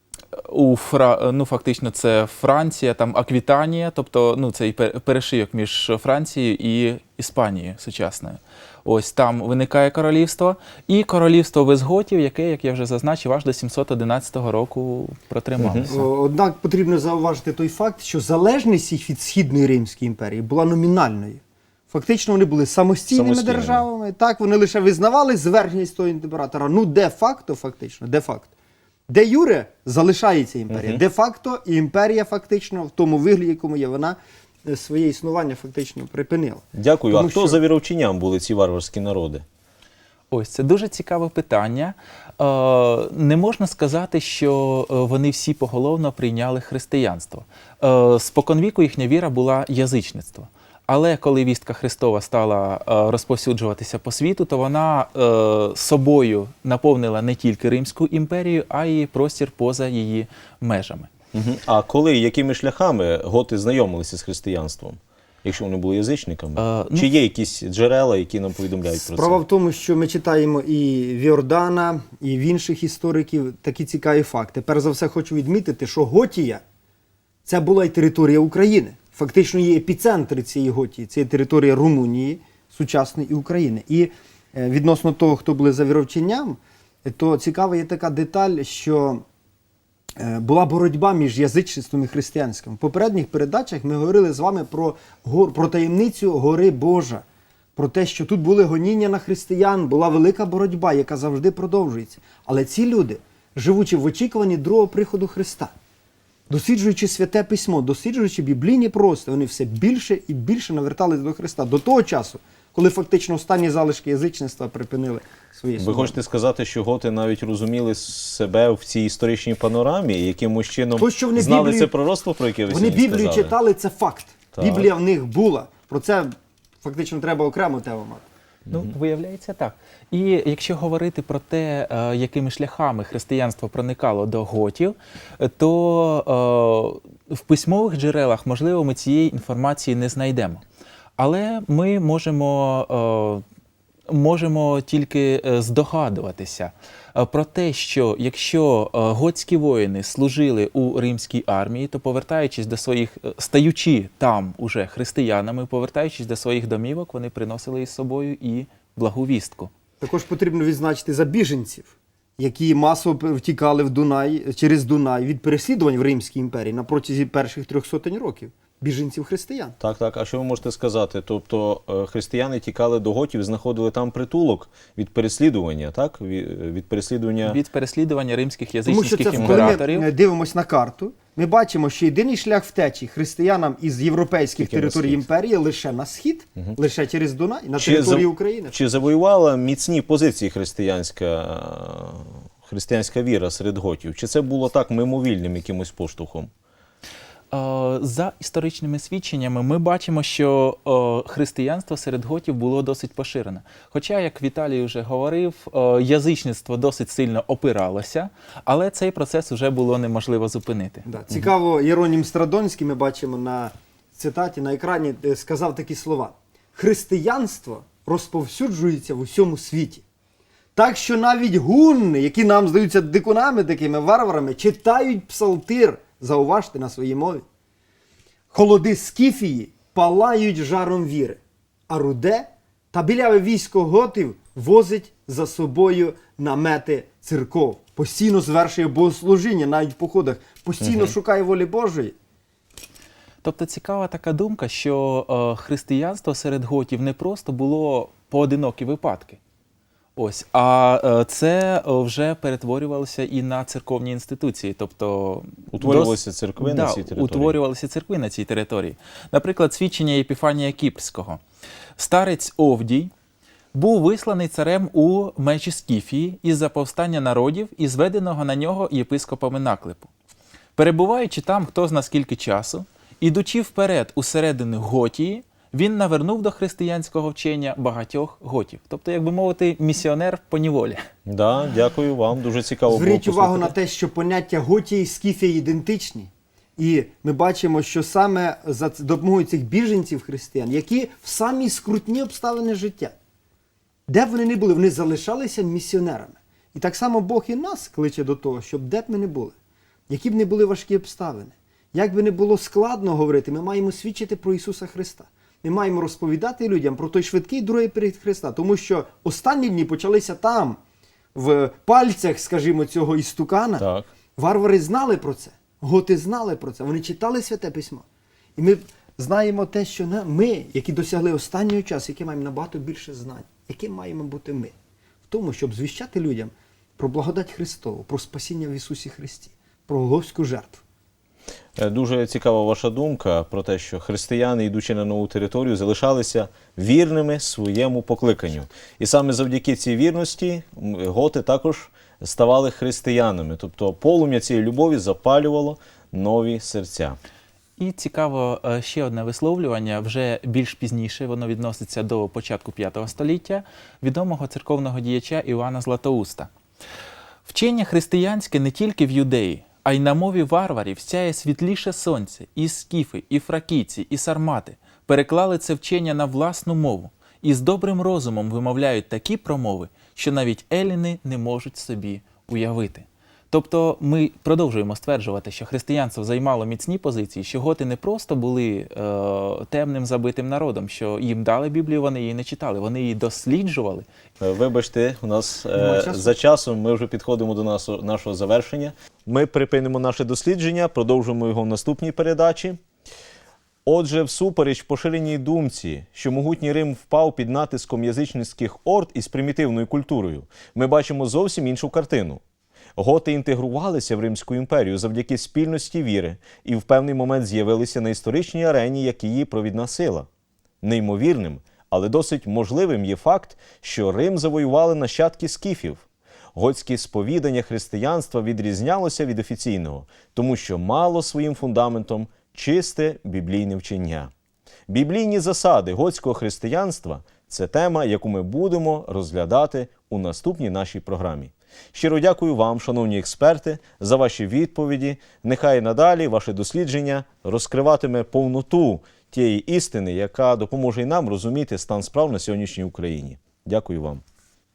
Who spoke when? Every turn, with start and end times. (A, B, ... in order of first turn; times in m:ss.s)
0:00.4-0:16.1 A
0:15.6-0:15.9 B
0:15.9-0:28.5 C
0:23.1-0:23.8 B
0:29.1-0:37.6 C
0:30.7-0:31.0 B
0:36.7-0:39.4 B
0:40.3-1:01.1 A
1:01.3-1:09.4 B
1:06.6-1:07.1 A
1:08.9-1:16.6 C
1:17.4-1:29.2 C
1:30.2-1:37.2 C
1:37.8-1:45.7 C
1:46.5-1:56.1 C
1:55.8-2:03.5 B
2:01.0-2:01.9 C
2:02.7-2:08.2 C
2:04.5-2:04.9 B
2:08.7-2:08.9 B
2:08.7-2:20.6 A
2:21.2-2:23.4 A
2:24.1-2:39.7 A
2:40.0-2:49.8 C
2:49.8-2:57.6 B
2:57.4-3:00.1 A
2:58.9-3:08.7 C
2:59.3-2:59.8 B
3:04.6-3:05.2 B
3:07.8-3:16.5 B
3:17.5-3:31.1 A
3:31.0-3:40.0 C
3:40.8-3:47.4 C
3:48.5-4:02.1 C
4:00.8-4:01.1 B
4:03.4-4:09.4 A
4:10.2-4:21.4 A
4:15.7-4:17.6 B
4:22.0-4:23.1 A
4:23.7-4:30.1 A
4:30.8-4:41.0 A
4:41.2-4:43.7 B
4:42.9-4:53.1 C
4:54.1-4:59.5 C
5:00.1-5:10.8 C
5:11.3-5:18.0 C
5:13.8-5:14.1 B
5:18.6-5:24.7 C
5:25.3-5:30.8 C
5:31.8-5:47.2 B
5:47.8-5:56.5 A
5:57.5-6:24.0 A
6:24.4-6:32.8 B
6:25.8-6:26.3 C
6:33.8-6:42.4 B
6:43.0-6:50.3 B
6:50.8-7:04.3 B
7:04.9-7:24.2 B